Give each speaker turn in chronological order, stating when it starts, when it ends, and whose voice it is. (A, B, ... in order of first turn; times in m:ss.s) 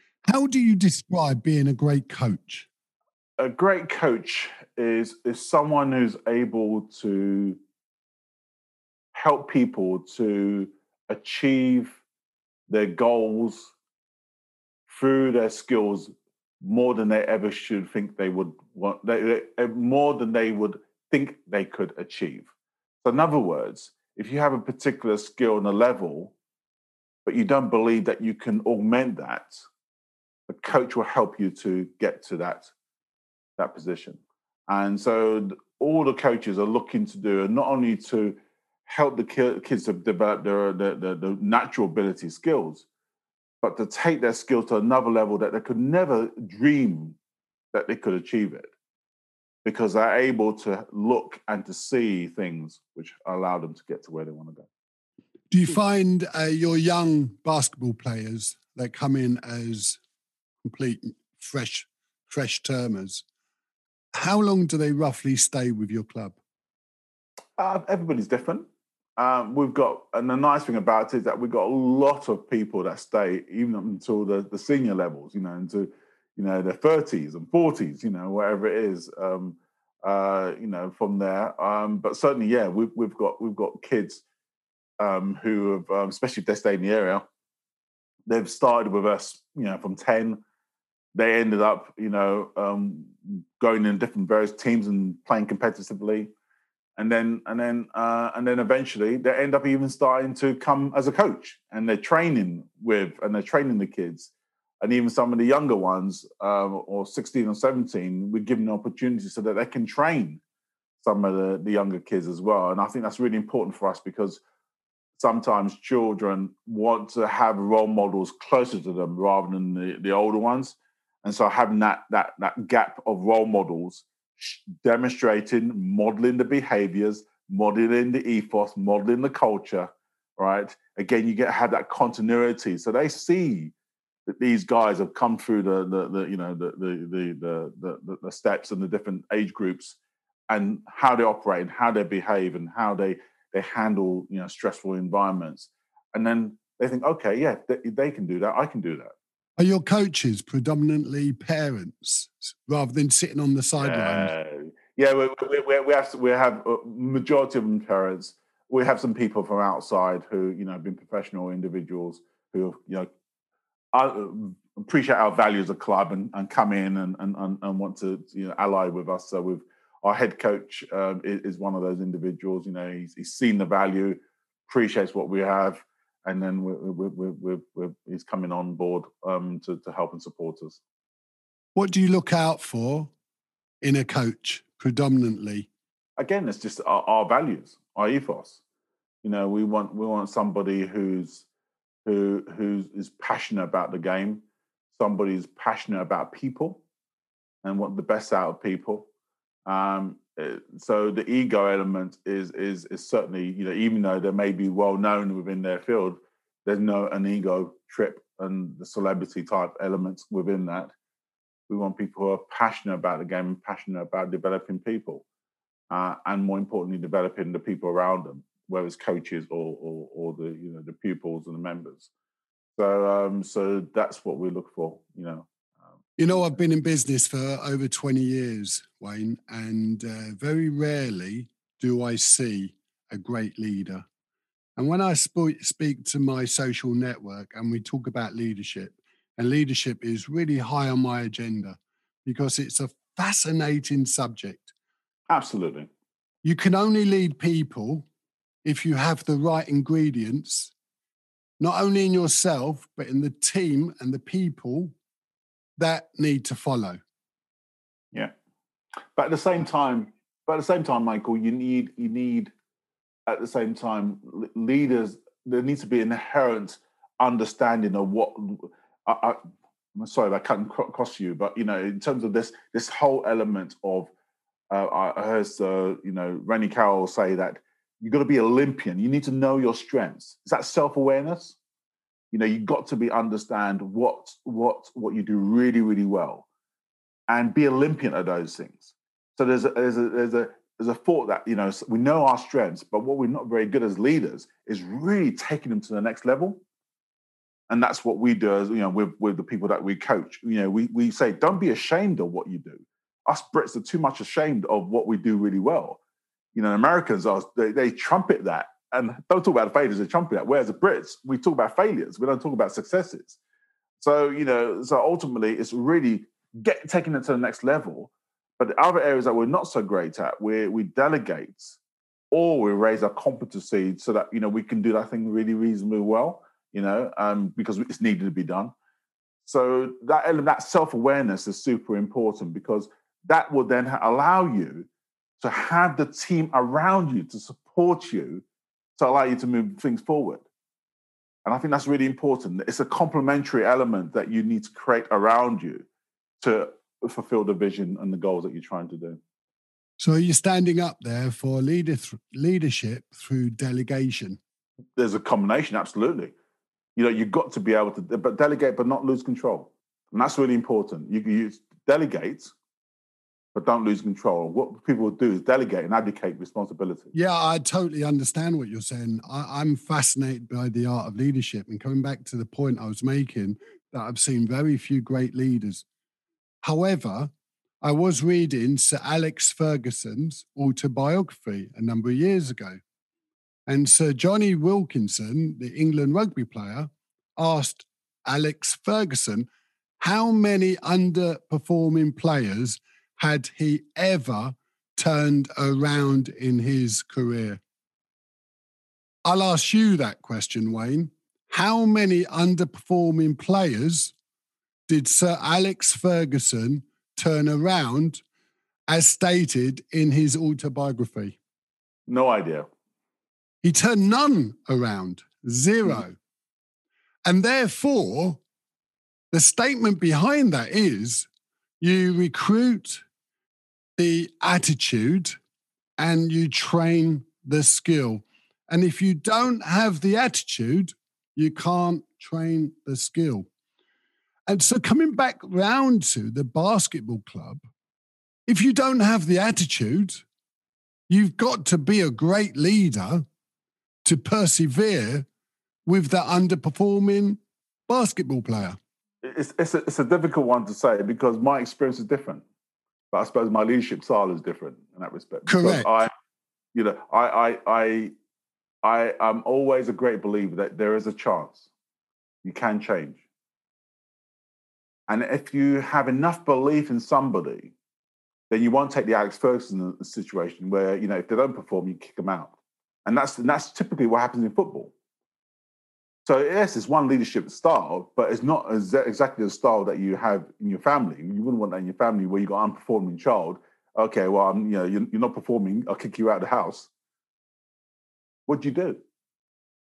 0:00.3-0:02.7 A
0:03.4-0:07.6 B
0:09.1-0:12.0 B
0:12.7-0:13.7 B
0:14.9-0:22.5 B
0:23.0-0:26.3 B
0:27.2-0:29.6 B
0:30.5-0:32.7 B
0:33.6-0:42.8 B
0:43.6-0:47.2 B
0:47.7-0:48.7 B
0:49.6-0:54.7 B
0:55.5-1:00.0 A
1:00.6-1:03.2 A
1:04.2-1:06.4 A
1:07.6-1:08.7 B
1:09.2-1:24.2 B
1:25.0-1:27.2 B
1:28.3-1:30.4 B
1:31.1-1:36.3 B
1:37.0-1:44.3 B
1:44.8-1:50.4 B
1:51.0-1:54.4 B
1:55.2-2:13.7 B
2:14.3-2:20.0 B
2:20.5-2:29.1 B
2:29.6-2:34.3 A
2:33.8-2:43.1 B
2:43.9-3:00.8 B
3:01.8-3:03.1 A
3:03.8-3:05.7 A
3:06.2-3:08.6 B
3:09.2-3:11.5 B
3:12.0-3:14.4 B
3:14.9-3:16.8 B
3:17.6-3:19.1 B
3:19.7-3:30.9 B
3:31.7-3:35.2 B
3:35.9-3:42.1 B
3:42.8-3:45.5 B
3:46.2-3:54.0 A
3:54.8-4:04.7 A
4:05.3-4:05.9 B
4:06.4-4:08.1 A
4:08.6-4:10.7 A
4:11.6-4:14.9 A
4:15.8-4:17.0 A
4:19.2-4:22.5 B
4:23.3-4:29.4 B
4:30.0-4:34.1 B
4:34.7-4:41.6 B
4:42.3-4:46.4 B
4:47.3-4:56.6 B
4:57.7-5:06.0 B
5:06.6-5:13.4 B
5:14.0-5:21.8 B
5:22.3-5:28.7 B
5:29.4-5:34.9 B
5:35.4-5:38.4 B
5:39.0-5:40.4 B
5:41.4-5:45.9 B
5:46.4-5:49.2 B
5:50.0-5:54.4 A
5:55.0-5:56.3 B
5:57.0-6:02.5 B
6:03.6-6:07.1 B
6:07.1-6:15.8 A
6:16.6-6:17.3 A
6:17.8-6:22.8 A
6:23.7-6:29.5 A
6:30.0-6:37.6 A
6:39.2-6:44.1 A
6:44.9-6:48.2 A
6:48.9-6:51.4 A
6:52.1-6:52.7 B
6:53.6-6:56.2 A
6:57.2-6:58.4 A
6:59.3-7:01.3 A
7:01.8-7:03.0 A
7:04.0-7:05.4 A
7:06.0-7:13.5 A
7:14.5-7:17.6 A
7:18.5-7:20.2 A
7:21.1-7:23.2 A
7:24.0-7:25.3 A
7:25.9-7:28.8 A
7:29.2-7:32.4 B
7:33.1-7:36.1 B
7:35.5-7:35.9 A
7:36.8-7:38.1 B
7:38.8-7:41.7 B
7:42.4-7:43.2 B
7:45.1-7:47.7 B
7:48.5-7:52.5 B
7:53.1-7:54.9 B
7:56.2-8:06.9 B
8:08.5-8:09.0 B